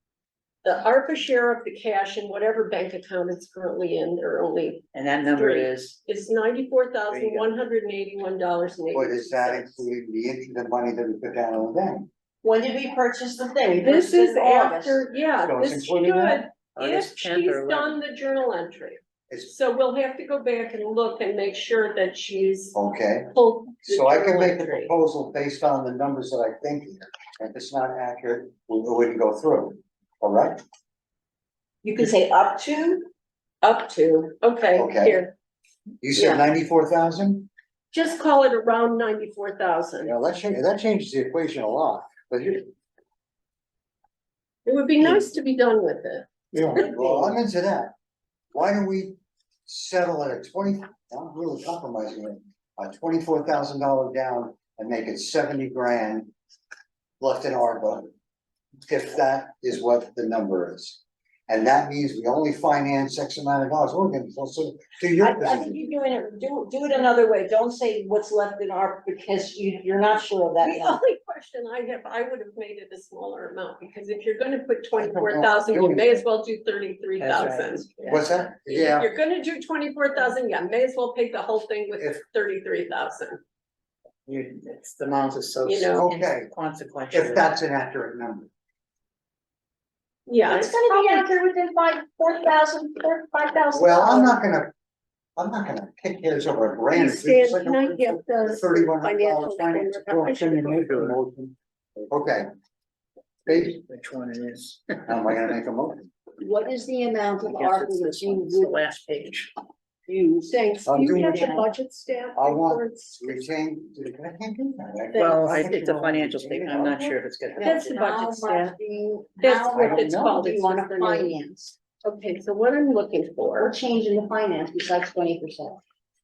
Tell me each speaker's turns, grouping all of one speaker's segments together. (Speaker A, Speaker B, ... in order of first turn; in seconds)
Speaker A: 0.6-9.8, 13.8-22.8, 23.3-24.9, 33.6-35.4, 36.2-36.5, 37.9-40.1, 44.6-47.3, 70.6-78.2, 78.7-83.4, 85.7-86.1, 90.3-91.3, 96.9-100.8, 110.5-113.5, 115.1-115.4, 117.6-118.8, 119.4-121.3, 122.0-123.7
Speaker B: 4.9-6.0, 7.1-7.5, 16.8-18.0, 77.2-78.3, 84.3-87.5, 100.8-101.2, 103.7-105.4, 107.4-109.5, 115.2-118.1
Speaker C: 8.9-12.1, 15.4-16.4, 22.7-23.3, 23.9-30.6, 34.8-35.2, 36.0-37.5, 40.0-42.7, 45.0-45.3, 46.5-47.9, 48.5-56.3, 57.2-58.1, 58.9-65.8, 75.0-76.2, 78.1-79.1, 86.0-86.5, 87.1-88.5, 93.8-94.7, 95.4-101.6, 102.1-102.5, 103.5-103.8, 105.1-106.1, 110.9-111.4, 112.4-117.2, 119.8-120.1
Speaker D: 12.4-15.1, 31.8-33.1, 65.2-71.0, 90.5-94.4, 106.4-108.8, 110.1-111.7, 117.6-121.8, 123.6-125.8